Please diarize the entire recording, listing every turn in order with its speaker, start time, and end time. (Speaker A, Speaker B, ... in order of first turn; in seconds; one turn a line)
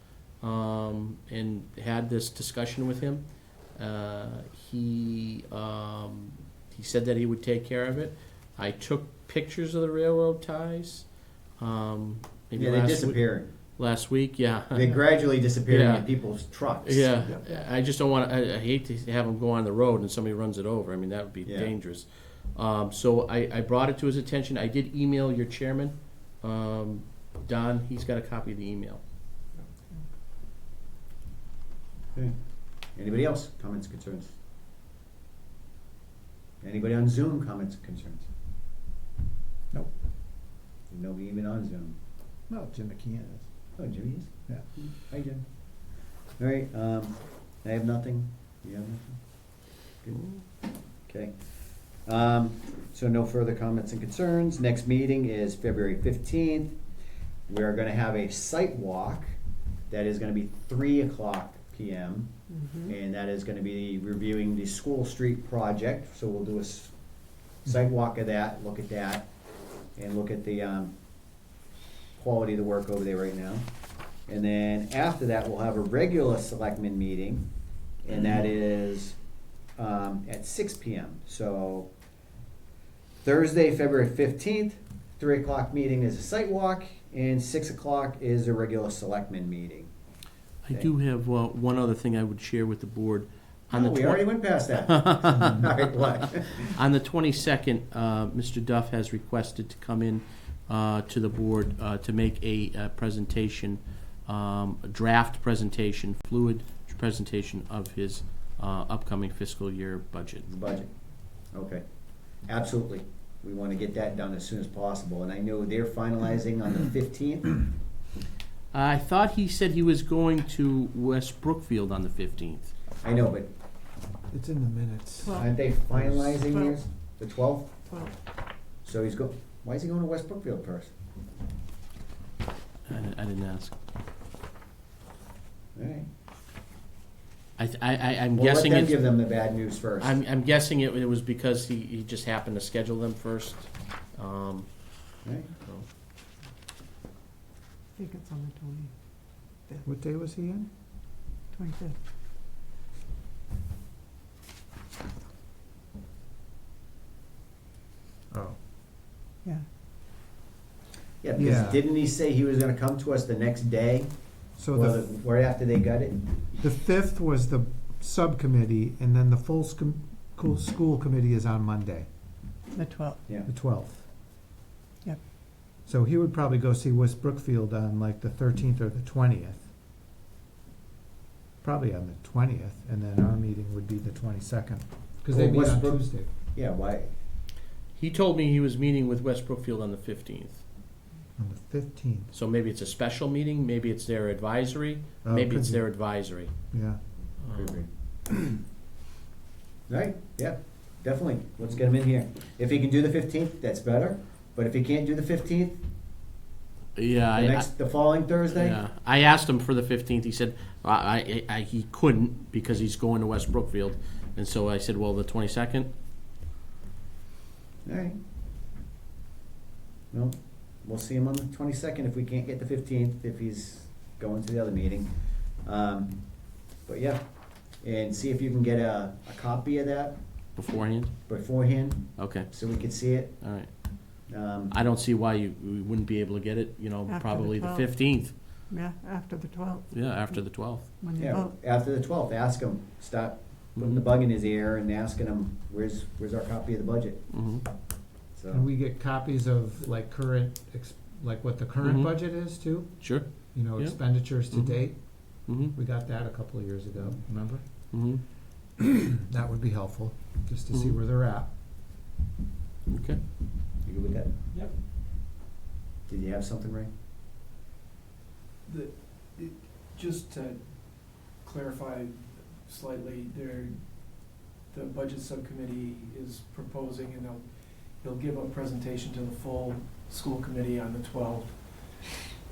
Speaker A: 0.4-14.9
Speaker B: 12.6-13.5
Speaker B: 14.7-17.3
Speaker A: 15.7-16.1
Speaker A: 16.8-29.0
Speaker B: 21.4-21.7
Speaker B: 32.9-34.3
Speaker B: 36.6-38.3
Speaker B: 40.9-42.0
Speaker C: 42.5-43.5
Speaker B: 43.8-50.5
Speaker C: 44.5-44.8
Speaker B: 51.0-51.3
Speaker B: 52.0-56.8
Speaker B: 57.5-59.3
Speaker B: 59.9-66.9
Speaker D: 62.5-62.9
Speaker B: 67.7-69.3
Speaker B: 70.0-70.9
Speaker B: 72.2-73.7
Speaker B: 74.3-77.5
Speaker B: 78.0-79.2
Speaker B: 79.8-81.9
Speaker B: 83.2-89.9
Speaker A: 90.6-110.5
Speaker B: 93.7-96.7
Speaker B: 110.5-110.9
Speaker B: 111.5-111.8
Speaker B: 112.5-117.7
Speaker A: 118.7-122.7
Speaker B: 123.0-123.5
Speaker C: 124.3-126.4
Speaker D: 125.2-125.8
Speaker B: 125.3-127.8
Speaker D: 126.4-126.8
Speaker D: 127.8-128.2
Speaker B: 128.8-130.9
Speaker A: 132.9-133.7
Speaker B: 135.7-136.1
Speaker A: 137.6-139.0
Speaker B: 138.3-140.1
Speaker A: 140.0-144.7
Speaker D: 148.0-148.9
Speaker C: 149.8-150.7
Speaker D: 151.5-152.0
Speaker C: 158.3-158.6
Speaker B: 161.2-164.1
Speaker C: 161.3-161.8
Speaker C: 164.6-165.1
Speaker B: 164.7-166.6
Speaker C: 166.6-172.1
Speaker D: 172.7-173.2
Speaker C: 173.4-174.1
Speaker C: 175.8-179.7
Speaker C: 181.6-186.3
Speaker B: 185.3-187.1
Speaker A: 187.9-190.6
Speaker C: 191.4-192.3
Speaker A: 192.3-196.5
Speaker C: 195.2-196.1
Speaker C: 196.7-197.0
Speaker A: 197.4-197.8
Speaker B: 197.5-197.9
Speaker B: 199.9-205.8
Speaker A: 206.9-207.7
Speaker B: 207.3-208.8
Speaker A: 208.5-215.9
Speaker B: 217.8-218.2
Speaker B: 220.1-227.2
Speaker B: 227.7-230.2
Speaker A: 230.6-231.4
Speaker B: 231.3-233.4
Speaker A: 232.2-232.5
Speaker A: 233.4-234.1
Speaker B: 234.3-234.7
Speaker A: 234.7-238.3
Speaker D: 237.1-241.6
Speaker A: 239.9-240.9
Speaker B: 241.2-247.2
Speaker A: 243.8-244.0
Speaker A: 247.3-247.7
Speaker B: 248.3-248.6
Speaker C: 248.5-257.9
Speaker A: 251.8-252.1
Speaker A: 253.0-255.7
Speaker A: 257.9-258.2
Speaker C: 259.2-261.5
Speaker A: 260.7-261.0
Speaker A: 262.9-263.2
Speaker B: 263.9-264.3
Speaker B: 266.1-266.9
Speaker E: 268.6-282.3